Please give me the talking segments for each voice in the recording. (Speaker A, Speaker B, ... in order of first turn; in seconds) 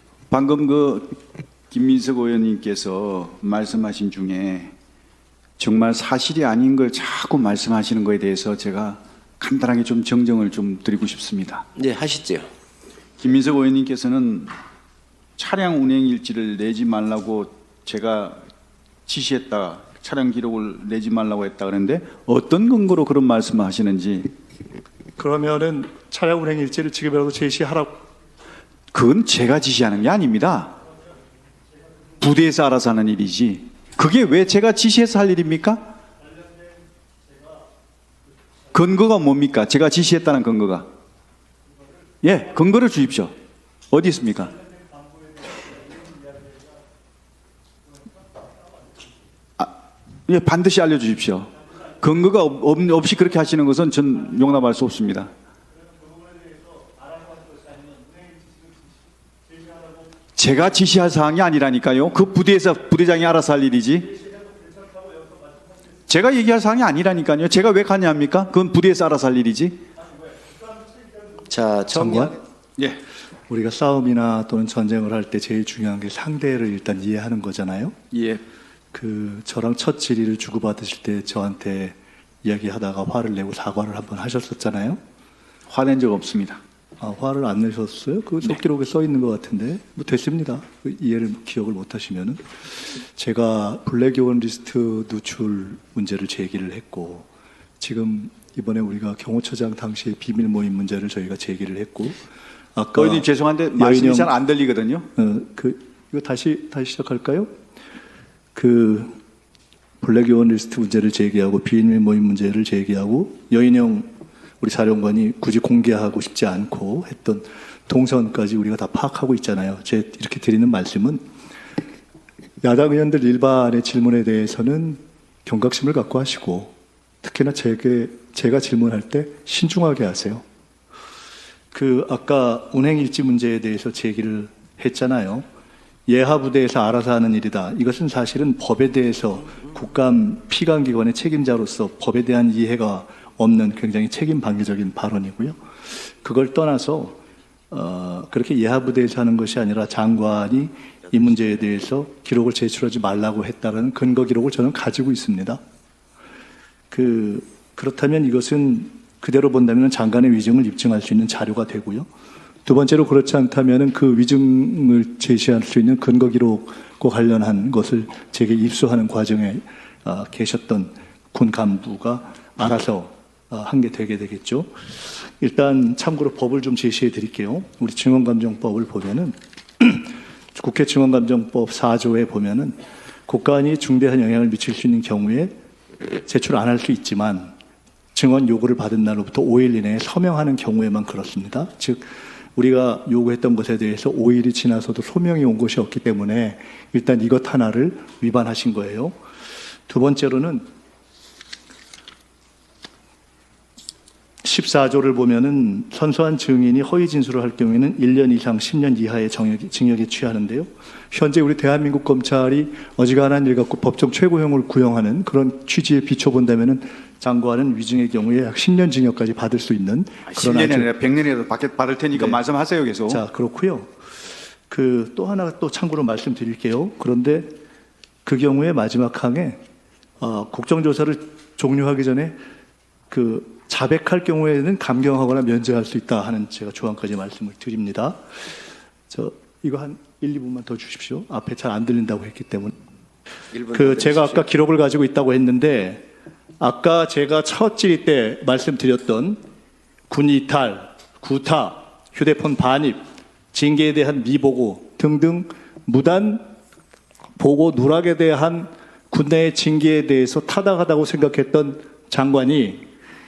Speaker A: 0.3-1.2, 1.7-4.7, 5.6-11.7, 13.2-14.5, 15.4-18.4, 19.1-24.3, 28.9-30.8, 32.2-35.9, 38.7-40.9, 42.2-43.3, 43.9-44.6, 50.3-55.3, 60.4-64.2, 66.1-69.8, 78.1-78.4, 85.7-86.6, 103.0-105.1, 220.3-223.2
Speaker B: 11.8-12.5, 71.5-72.4, 243.5-244.4
Speaker C: 25.2-28.1, 72.0-72.4, 73.5-78.0, 78.9-85.0, 87.0-97.3, 97.8-102.2, 102.8-104.3, 105.2-107.5, 108.5-109.1, 110.0-114.1, 114.6-121.2, 122.6-130.4, 131.7-135.4, 136.1-147.2, 147.7-155.6, 156.9-162.1, 162.7-174.7, 175.4-185.5, 186.3-187.5, 188.1-199.1, 199.9-200.7, 204.4-220.9, 223.1-223.9, 224.7-227.5, 228.2-229.6, 230.2-232.4, 233.1-238.2, 239.1-242.7, 243.7-246.1, 246.6-249.4, 250.1-253.0, 253.5-256.5, 257.4-262.8